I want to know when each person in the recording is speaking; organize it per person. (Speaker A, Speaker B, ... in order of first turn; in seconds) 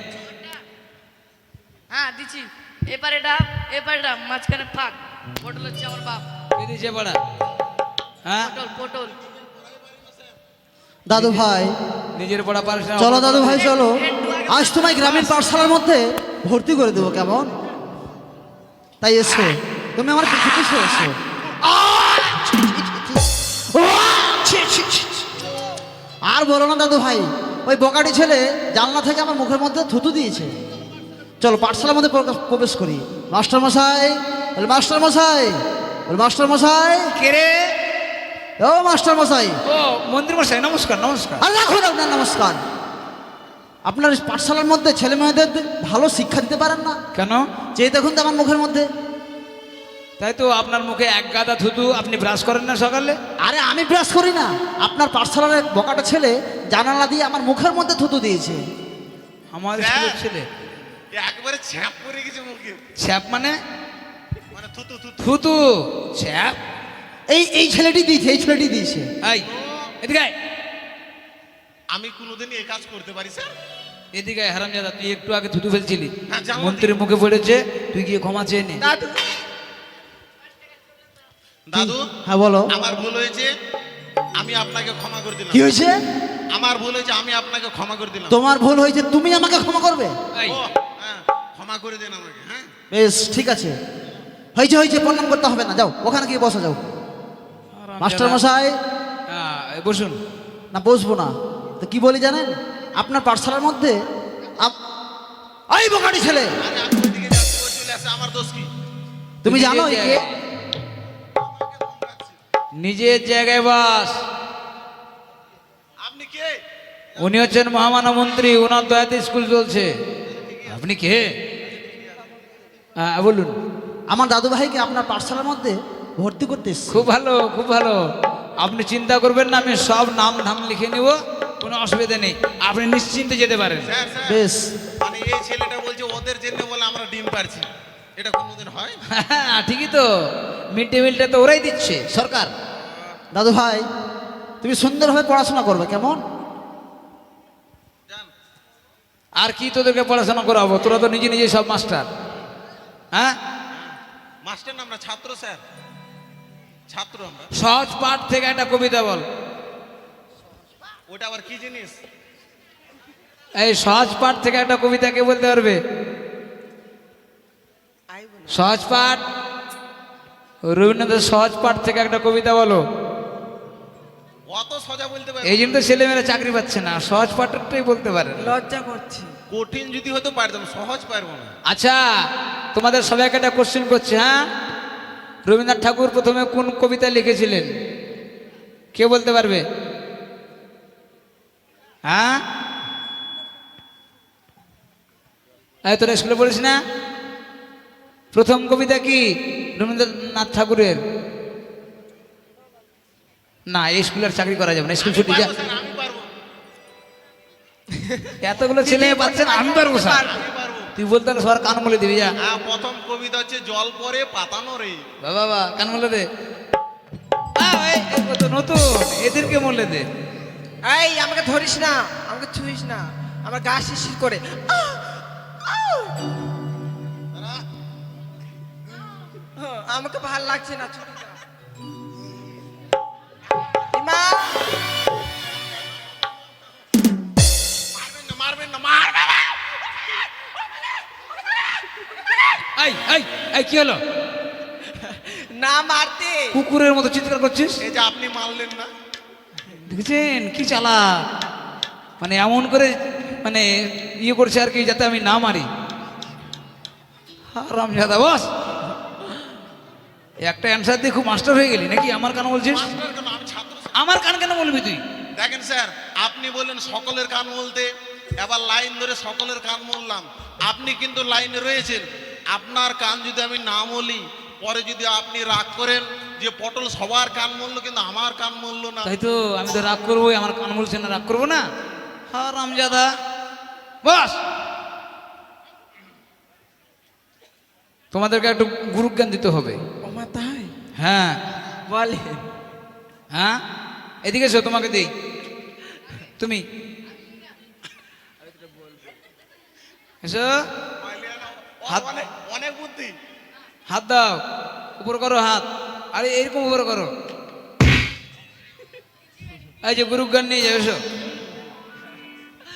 Speaker A: 0.2-0.5, 1.9-6.2, 8.4-9.1, 13.5-15.4
Speaker B: 6.6-7.2, 8.2-8.5, 11.1-11.4, 12.1-13.7, 37.2-37.6, 39.7-41.4, 47.1-47.4, 50.2-53.1, 59.5-60.4, 63.0-63.5, 65.2-65.6, 66.2-66.6, 70.0-70.3, 74.1-78.8, 97.8-98.4, 99.3-100.2, 109.5-110.3, 112.8-114.1, 117.2-119.9, 120.7-121.3, 123.0-123.5, 126.9-128.0, 128.6-133.9, 139.1-140.1, 140.7-142.5, 149.4-152.1, 157.6-159.2, 163.6-165.8, 168.5-169.2, 170.7-172.8, 175.4-178.5, 181.7-182.0, 182.7-184.3, 185.4-187.7, 188.9-189.6, 192.1-192.4, 195.8-196.8, 198.3-199.2, 199.8-201.0, 203.7-205.5, 208.4-210.3, 211.0-212.3, 215.2-216.2, 217.6-220.1, 242.8-244.0, 246.5-247.8, 249.8-251.0, 252.2-253.7, 254.2-255.7, 257.5-258.4, 260.4-262.9, 263.9-265.0, 279.0-281.6, 282.3-283.1, 284.0-284.4, 288.1-289.8, 291.0-291.4, 293.3-293.6, 294.2-295.1, 300.2-300.6, 303.9-304.4, 305.0-307.1, 309.8-311.0
Speaker C: 11.1-11.7, 13.0-17.5, 19.0-25.2, 26.3-30.5, 31.4-35.5, 36.1-37.1, 38.6-39.5, 41.4-42.6, 43.9-47.0, 47.8-48.9, 53.4-58.6, 67.3-69.1, 81.7-82.7, 85.5-86.0, 88.3-90.1, 92.9-93.7, 94.5-96.8, 98.0-98.8, 100.7-104.0, 105.7-106.5, 109.4-110.2, 124.1-127.0, 134.3-134.6, 143.3-143.8, 144.6-146.2
Speaker D: 59.7-60.2, 61.1-62.8, 64.5-65.4, 69.4-69.9, 71.9-73.5, 76.3-77.0, 81.7-82.0, 82.7-83.5, 84.4-85.6, 86.5-88.3, 90.5-92.7, 106.6-108.7, 111.4-112.3, 116.0-116.5, 117.2-117.4, 120.3-122.5, 133.8-134.4, 135.0-137.7, 138.2-139.0, 142.8-143.1, 153.7-155.6, 156.9-157.5, 161.1-161.9, 174.5-176.0, 179.5-181.5, 205.0-206.3, 209.7-210.9, 212.4-215.0, 227.3-227.6, 237.9-239.7, 247.8-248.9, 262.7-263.9, 265.4-267.9, 268.4-279.1, 301.0-303.1
Speaker E: 78.8-79.2, 168.1-168.7, 178.4-179.3, 208.9-210.4, 220.9-225.0, 225.7-226.1, 229.6-231.3, 233.9-234.6, 245.0-246.6, 290.0-290.7, 291.9-292.4